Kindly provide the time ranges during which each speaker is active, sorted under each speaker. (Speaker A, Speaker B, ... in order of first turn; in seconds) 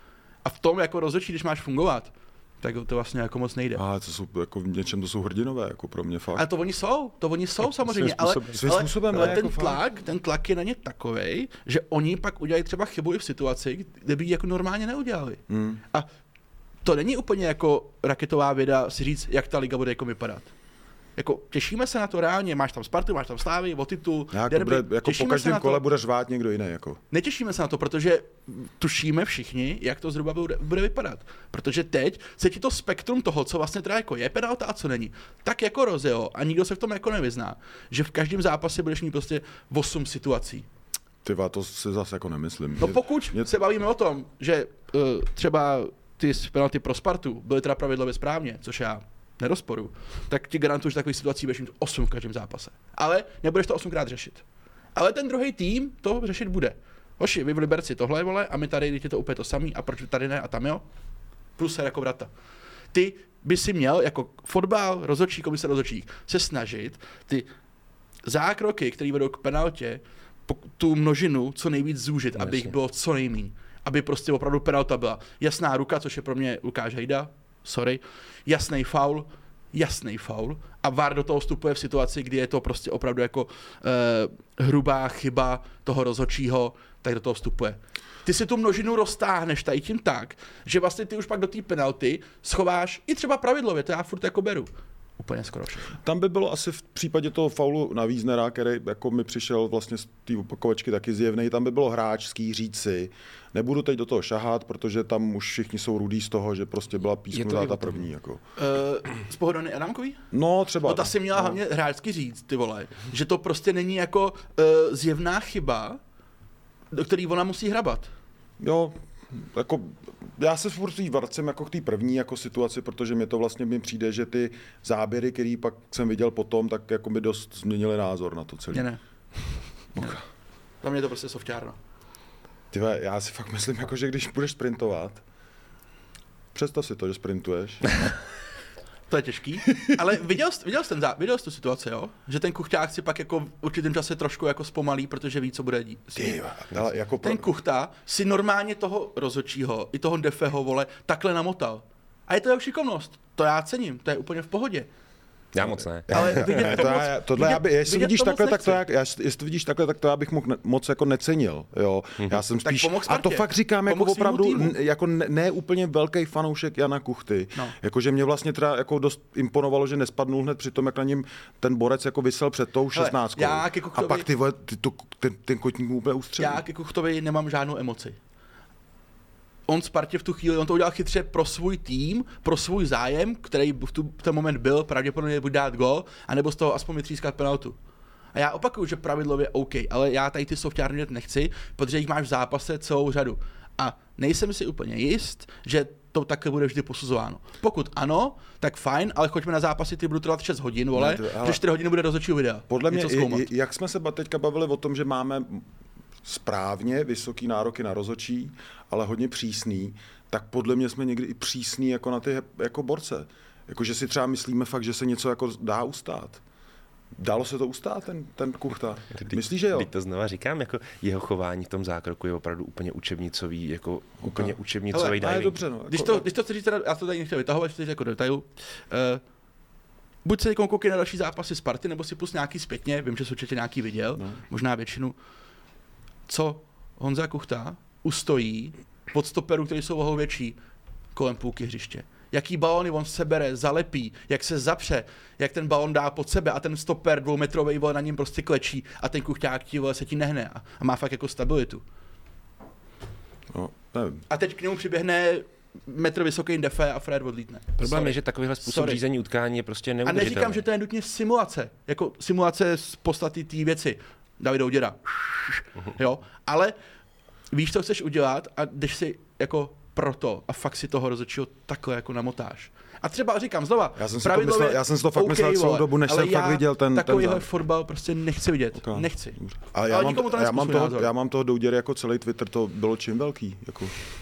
Speaker A: 0.4-3.8, 6.3-16.1, 16.8-20.5, 21.2-25.8, 27.1-40.6, 42.8-54.4, 54.9-60.8, 61.5-62.3, 62.9-67.5, 68.2-96.0, 108.5-110.2, 110.8-116.0, 116.9-118.1, 128.7-129.0, 130.8-131.8, 139.1-146.4, 147.2-154.9, 156.1-158.8, 162.6-164.7, 172.9-174.3, 176.4-178.2, 179.7-187.8, 188.3-203.5, 224.9-225.2, 225.9-229.2, 230.2-235.2, 236.3-240.6, 241.1-251.8, 254.3-259.0, 260.0-266.7, 267.5-281.1
Speaker B: 3.7-6.5, 8.0-9.8, 15.5-15.8, 24.3-27.0, 41.2-43.5, 96.0-108.4, 110.3-111.6, 118.6-128.9, 132.7-135.2, 136.5-137.8, 146.1-147.5, 156.1-176.6, 200.9-201.6, 202.7-205.6, 206.2-216.4, 217.2-219.9, 224.2-224.5, 225.2-226.2, 253.5-254.2, 274.0-277.4, 278.8-283.9
Speaker C: 8.3-8.5, 72.4-72.7, 107.3-108.0, 155.5-156.8, 219.2-225.6, 257.8-260.6